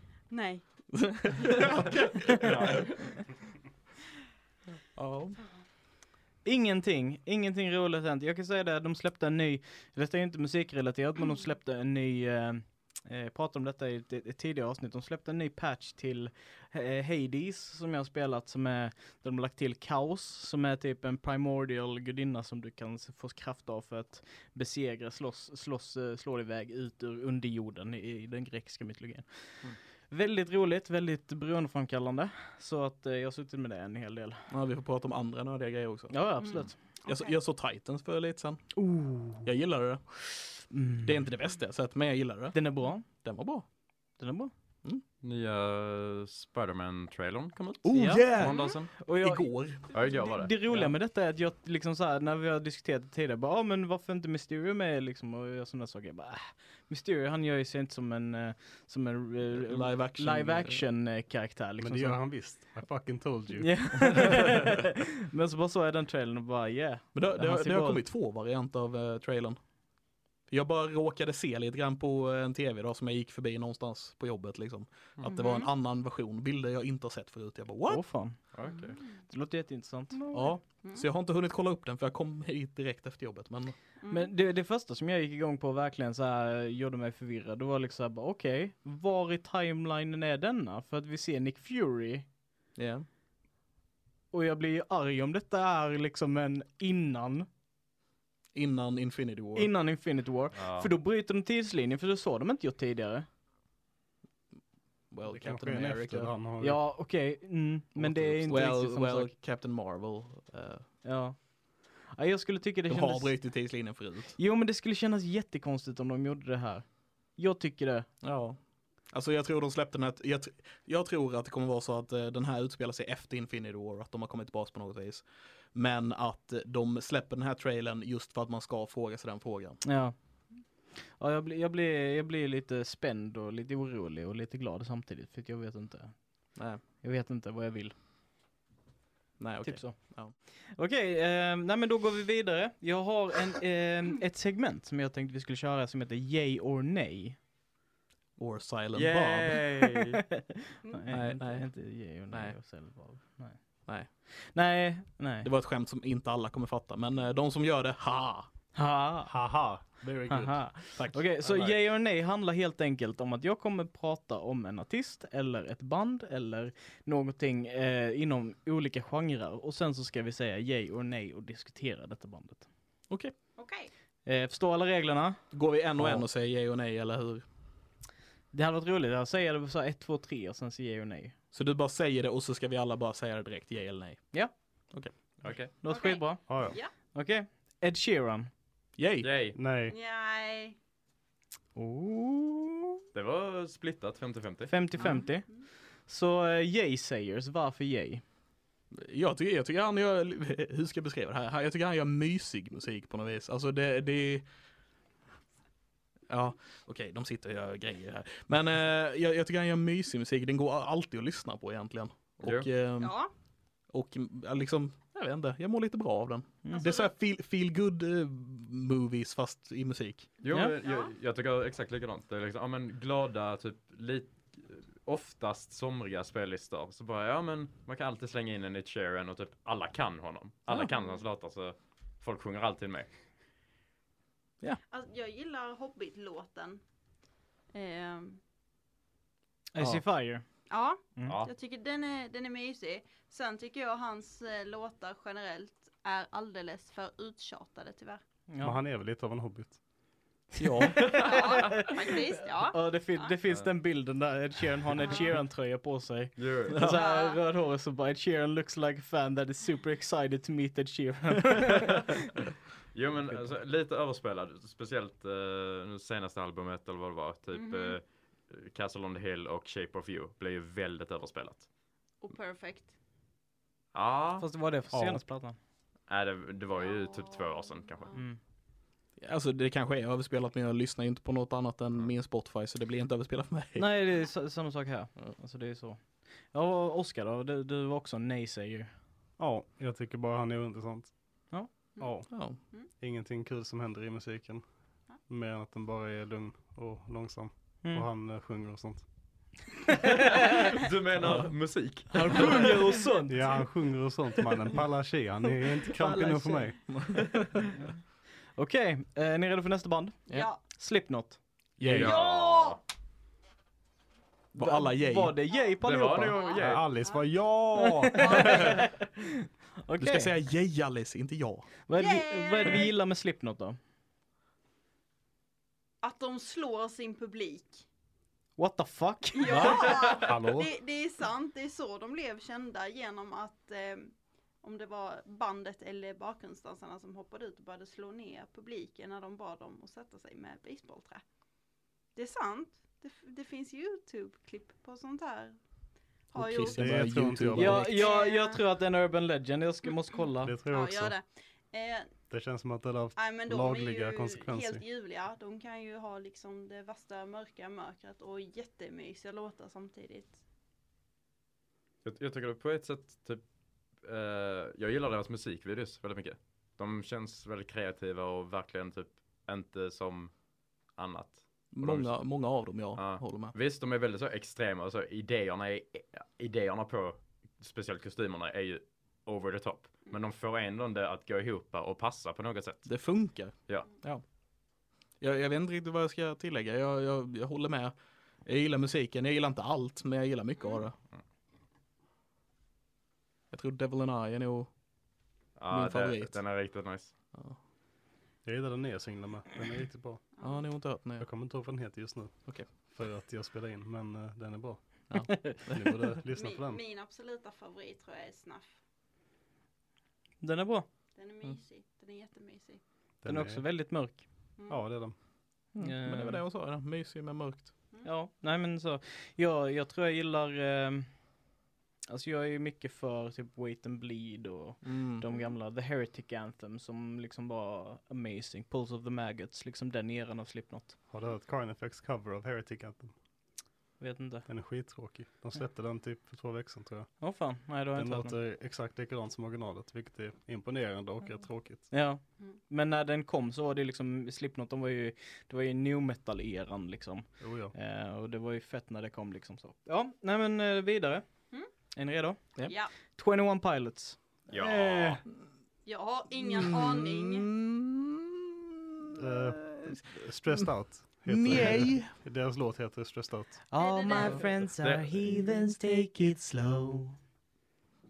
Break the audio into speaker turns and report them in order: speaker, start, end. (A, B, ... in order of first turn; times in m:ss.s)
0:00.3-0:00.6 A
0:00.9-0:02.9 B
0:02.4-0:03.1 C
0:04.9-0:05.4 B
0:06.4-0:34.4 D
0:34.5-0:43.6 B
0:36.1-0:36.8 D
0:36.4-0:37.4 A
0:38.8-0:39.5 D
0:40.7-0:41.3 D
0:42.5-0:43.1 D
0:44.2-0:44.5 D
0:45.2-0:48.9 C
0:47.8-0:50.9 B
0:47.9-0:49.5 D
0:49.9-0:50.6 C
0:50.2-1:02.2 D
0:59.5-1:00.9 B
1:01.8-1:04.6 E
1:03.6-1:08.0 D
1:07.1-1:09.6 B
1:10.5-1:18.0 B
1:15.2-1:15.7 A
1:17.9-1:18.6 D
1:18.5-1:19.0 C
1:18.6-1:19.0 A
1:19.2-1:20.6 D
1:20.3-1:23.8 B
1:24.0-1:24.3 A
1:24.1-1:32.2 D
1:32.8-1:33.1 B
1:34.3-1:37.5 D
1:38.5-1:39.7 B
1:39.6-1:43.2 D
1:40.5-1:40.9 C
1:45.1-1:46.3 B
1:45.2-1:46.9 E
1:46.6-1:49.3 D
1:48.0-1:50.9 B
1:51.0-1:58.1 D
1:52.9-1:54.4 B
1:58.2-2:09.8 B
2:09.8-2:17.9 D
2:16.5-2:16.8 B
2:19.4-2:20.3 B
2:19.6-2:27.4 D
2:28.4-2:29.6 B
2:28.9-2:30.2 C
2:29.8-2:35.5 D
2:31.1-2:32.6 B
2:35.4-2:38.5 B
2:38.8-2:39.4 D
2:39.3-2:40.8 E
2:40.3-2:52.7 D
2:41.0-2:41.7 B
2:53.1-2:53.3 B
2:53.6-2:53.9 A
2:54.2-2:55.4 D
2:55.5-2:57.4 B
2:56.0-2:56.2 D
2:58.5-3:01.4 D
3:01.5-3:05.1 B
3:05.4-3:05.7 C
3:05.8-3:08.5 D
3:05.9-3:06.9 A
3:06.4-3:06.8 E
3:09.0-3:09.3 B
3:09.2-3:09.6 C
3:09.5-3:10.0 E
3:09.9-3:10.8 A
3:11.8-3:13.0 D
3:13.1-3:14.7 C
3:14.7-3:18.2 D
3:15.0-3:15.6 A
3:18.9-3:24.5 B
3:26.3-3:33.2 B
3:32.4-3:32.7 C
3:33.0-3:33.3 A
3:33.9-3:40.3 B
3:36.7-3:37.1 A
3:40.4-3:53.1 C
3:40.5-3:40.8 D
3:40.8-3:41.1 A
3:54.9-3:56.8 A
3:57.7-3:58.4 A
3:59.7-4:00.5 D
3:59.8-4:00.0 B
4:00.7-4:08.2 A
4:01.2-4:01.5 C
4:08.5-4:08.8 D
4:08.6-4:09.8 E
4:10.6-4:11.1 B
4:10.7-4:22.1 D
4:11.1-4:11.4 C
4:11.1-4:13.3 A
4:15.0-4:15.4 A
4:16.4-4:16.9 C
4:16.9-4:17.4 A
4:22.9-4:31.7 C
4:27.5-4:28.0 A
4:32.2-4:32.9 A
4:33.9-4:34.5 C
4:34.4-4:35.6 D
4:34.9-4:35.2 E
4:36.1-4:38.2 C
4:36.8-4:38.2 A
4:38.1-4:38.4 D
4:39.2-4:44.0 B
4:43.8-4:48.9 D
4:49.4-4:52.4 E
4:52.3-4:52.6 B
4:52.9-4:59.7 E
4:57.8-4:58.1 D
5:00.8-5:02.8 C
5:01.2-5:01.5 B
5:02.1-5:03.7 D
5:03.3-5:06.8 E
5:06.0-5:06.7 D
5:06.9-5:07.4 B
5:08.5-5:11.4 D
5:10.3-5:10.6 A
5:11.8-5:12.2 B
5:11.8-5:12.8 C
5:12.0-5:12.8 A
5:14.5-5:15.4 B
5:14.5-5:16.4 D
5:15.8-5:16.9 C
5:16.3-5:17.4 A
5:16.6-5:18.8 E
5:18.0-5:19.2 D
5:18.1-5:18.9 A
5:19.8-5:20.3 D
5:20.0-5:21.7 B
5:21.9-5:23.8 D
5:22.0-5:22.9 A
5:26.0-5:27.9 A
5:28.6-5:29.9 D
5:29.4-5:41.2 A
5:29.5-5:29.8 B
5:30.1-5:30.7 E
5:42.1-5:45.6 A
5:46.3-5:47.0 A
5:46.4-5:48.1 B
5:46.6-5:47.9 E
5:47.5-5:50.6 D
5:47.9-5:48.6 A
5:50.4-5:51.1 E
5:50.7-5:52.2 A
5:52.3-5:54.8 E
5:53.2-6:00.4 A
6:02.0-6:03.4 C
6:04.0-6:10.4 C
6:10.9-6:23.0 C
6:11.7-6:13.5 B
6:22.9-6:24.2 B
6:25.2-6:31.0 B
6:33.5-6:34.7 B
6:35.6-6:37.1 C
6:35.7-6:36.4 B
6:38.4-6:40.2 E
6:40.4-6:40.7 A
6:40.4-6:41.3 B
6:41.2-6:46.8 E
6:45.1-6:46.0 B
6:45.3-6:45.5 D
6:46.3-6:48.7 A
6:50.4-6:50.9 D
6:51.2-6:52.8 A
6:53.2-6:54.1 E
6:53.2-6:54.2 D
6:54.6-6:54.8 A
6:54.7-6:55.2 E
6:55.8-6:56.4 D
6:55.8-6:57.7 B
6:58.0-7:01.2 D
7:02.1-7:11.0 D
7:04.8-7:05.2 B
7:11.1-7:13.1 E
7:14.0-7:14.5 D
7:14.5-7:17.3 E
7:17.2-7:18.4 D
7:17.8-7:21.9 E
7:21.9-7:31.2 D
7:27.4-7:27.7 E
7:31.9-7:34.2 D
7:32.6-7:32.9 A
7:34.5-7:35.2 C
7:34.6-7:35.2 E
7:35.9-7:37.5 A
7:36.4-7:38.6 B
7:39.1-7:40.7 B
7:39.2-7:43.6 E
7:41.3-7:42.1 B
7:43.7-7:47.2 D
7:43.7-7:44.6 A
7:44.2-7:45.4 C
7:45.5-7:46.0 B